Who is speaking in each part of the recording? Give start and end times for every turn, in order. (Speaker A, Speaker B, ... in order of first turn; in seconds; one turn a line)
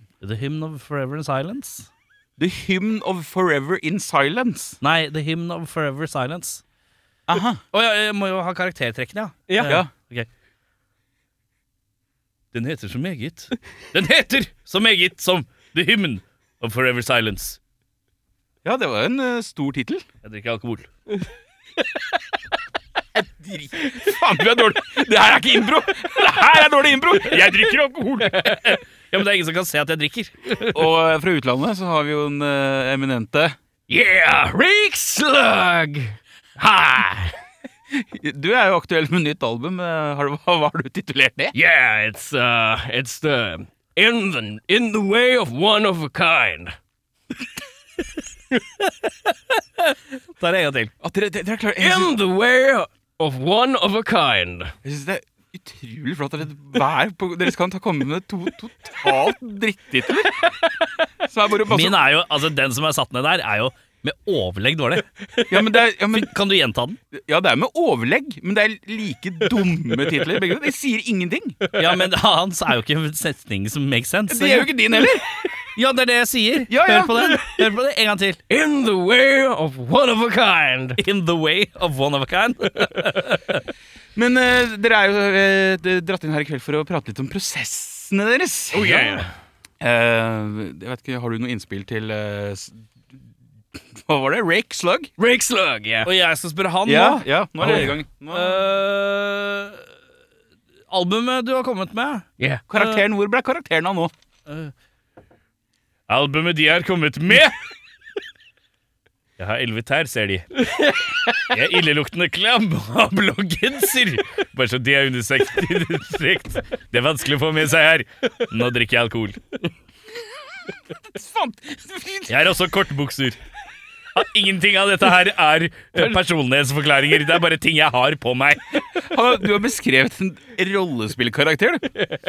Speaker A: 0.2-1.9
Speaker B: 2.4-4.8
Speaker A: 4.8-6.6
Speaker B: 7.3-7.6
Speaker A: 7.7-10.3
Speaker C: 9.5-9.8
Speaker B: 9.6-9.9
Speaker A: 12.5-17.6
Speaker B: 18.6-20.0
Speaker A: 20.2-20.9
Speaker B: 23.1-28.8
Speaker A: 28.4-30.9
Speaker B: 30.7-33.6
Speaker C: 33.9-37.4
Speaker B: 37.9-41.5
Speaker C: 41.5-46.8
Speaker A: 50.4-50.9
Speaker B: 51.0-52.1
Speaker C: 51.8-54.7
Speaker B: 54.8-60.5
Speaker B: 61.2-62.0
Speaker A: 61.6-67.0
Speaker B: 65.5-66.3
Speaker B: 67.1-71.6
Speaker A: 71.8-74.7
Speaker B: 74.3-75.3
Speaker A: 75.6-78.4
Speaker B: 76.7-77.2
Speaker C: 78.5-81.0
Speaker A: 81.0-83.6
Speaker B: 84.2-89.0
Speaker C: 88.7-89.3
Speaker B: 89.8-92.8
Speaker B: 93.8-95.1
Speaker C: 95.2-96.1
Speaker A: 96.0-99.9
Speaker B: 96.8-98.6
Speaker A: 100.9-103.1
Speaker B: 102.7-104.1
Speaker A: 104.5-104.7
Speaker A: 106.1-107.6
Speaker A: 109.4-110.5
Speaker C: 110.7-111.5
Speaker A: 111.5-119.4
Speaker B: 121.1-122.5
Speaker A: 122.3-123.4
Speaker A: 124.1-128.8
Speaker B: 129.1-131.9